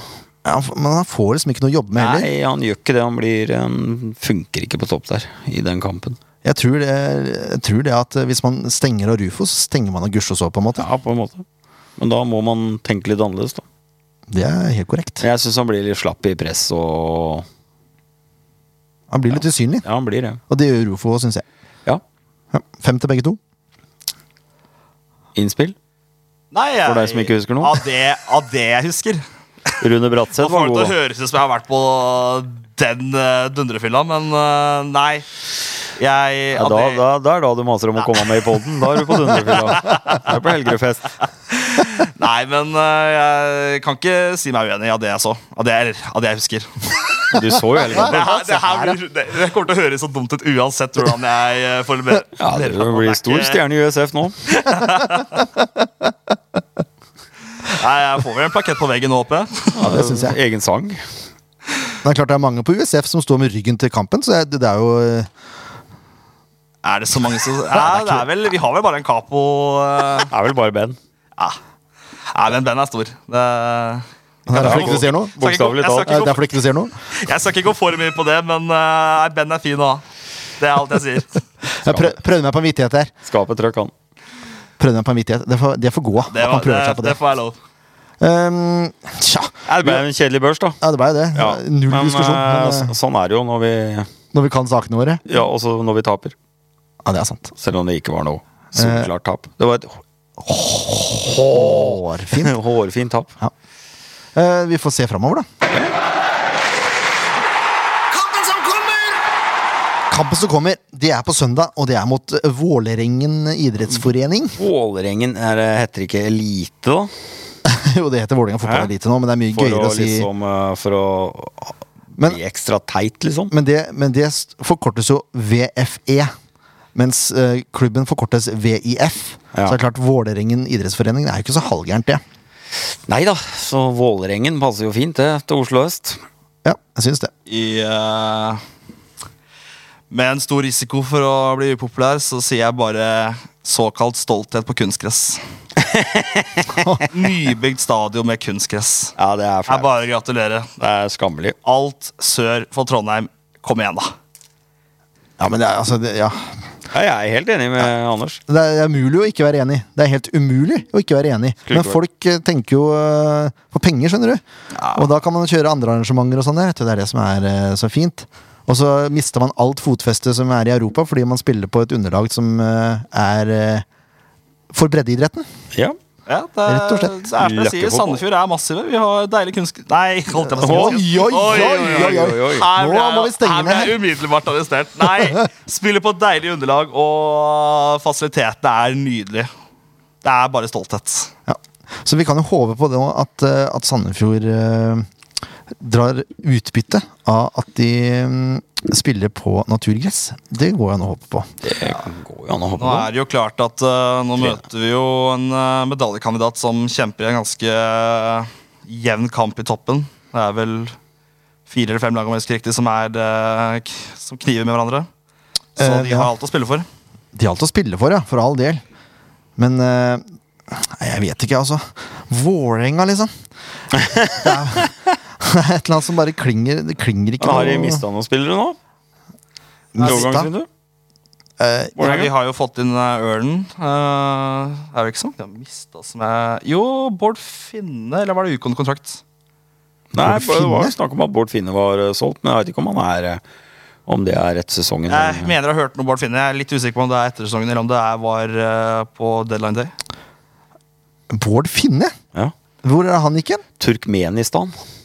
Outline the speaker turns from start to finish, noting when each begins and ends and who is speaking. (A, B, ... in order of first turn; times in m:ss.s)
0:00.4-0:02.3 A
0:02.0-0:06.2 B
0:06.4-0:10.9 A
0:10.8-0:11.4 B
0:12.0-0:13.6 B
0:14.3-0:15.2 A
0:15.2-0:17.4 B
0:19.1-0:19.8 A
0:19.4-0:20.4 B
0:20.5-0:21.4 A
0:22.5-0:23.4 A
0:25.4-0:25.7 B
0:26.5-0:29.2 C
0:26.8-0:27.8 B
0:29.8-0:31.0 B
0:30.4-0:35.3 C
0:36.0-0:37.0 C
0:36.6-0:41.1 B
0:39.8-0:40.2 C
0:41.5-0:47.3 C
0:47.3-0:48.3 B
0:47.9-0:53.6 C
0:48.0-0:49.0 A
0:52.4-0:54.4 B
0:54.5-0:55.4 C
0:57.6-1:00.0 C
0:59.8-1:01.0 B
0:59.8-1:00.4 A
1:02.0-1:05.3 A
1:06.8-1:10.3 C
1:07.7-1:08.2 A
1:10.3-1:11.0 B
1:12.3-1:16.5 C
1:14.5-1:15.4 A
1:14.5-1:16.2 B
1:16.0-1:16.9 A
1:17.1-1:20.0 C
1:20.6-1:21.4 C
1:21.7-1:23.1 A
1:21.8-1:22.1 B
1:23.2-1:23.9 B
1:24.8-1:27.2 A
1:26.3-1:27.6 C
1:28.2-1:30.0 A
1:29.7-1:30.8 B
1:30.8-1:32.9 A
1:31.3-1:34.1 B
1:34.3-1:35.2 A
1:35.2-1:36.3 B
1:37.0-1:37.5 A
1:37.6-1:40.0 B
1:38.7-1:39.1 A
1:40.4-1:42.5 A
1:41.2-1:43.3 B
1:44.3-1:45.5 A
1:48.4-1:48.9 C
1:50.1-1:54.6 A
1:54.6-1:57.1 B
1:57.6-2:00.3 A
1:58.6-1:58.9 B
1:59.5-2:03.5 B
2:03.5-2:06.3 A
2:06.9-2:12.2 A
2:13.1-2:16.2 B
2:16.6-2:17.3 A
2:17.5-2:18.6 C
2:20.1-2:25.4 C
2:25.8-2:26.8 B
2:26.8-2:27.0 A
2:27.1-2:29.1 C
2:29.2-2:29.9 B
2:29.7-2:30.7 C
2:30.8-2:31.6 B
2:31.6-2:34.1 C
2:35.4-2:36.6 A
2:36.9-2:38.4 B
2:38.5-2:44.4 A
2:41.7-2:42.0 B
2:44.8-2:45.1 C
2:44.9-2:53.8 A
2:54.7-2:55.5 A
2:56.3-3:09.5 C
2:56.6-2:57.1 A
2:57.4-2:58.2 B
3:00.4-3:04.0 A
3:00.6-3:02.7 B
3:10.2-3:11.3 C
3:11.5-3:15.0 A
3:15.8-3:21.5 A
3:21.6-3:23.1 B
3:22.8-3:31.0 C
3:31.7-3:35.1 C
3:35.8-3:36.8 C
3:35.8-3:36.3 A
3:37.3-3:38.8 A
3:39.6-3:43.3 A
3:44.0-3:44.5 B
3:44.2-3:48.0 A
3:47.4-3:48.8 B
3:49.9-3:50.5 A
3:50.0-3:50.7 B
3:51.6-3:52.0 A
3:52.0-3:52.3 B
3:52.0-3:59.2 C
4:00.1-4:03.4 B
4:00.2-4:00.9 A
4:04.1-4:05.5 B
4:05.1-4:09.9 C
4:11.3-4:12.1 A
4:12.8-4:13.6 A
4:13.8-4:14.8 B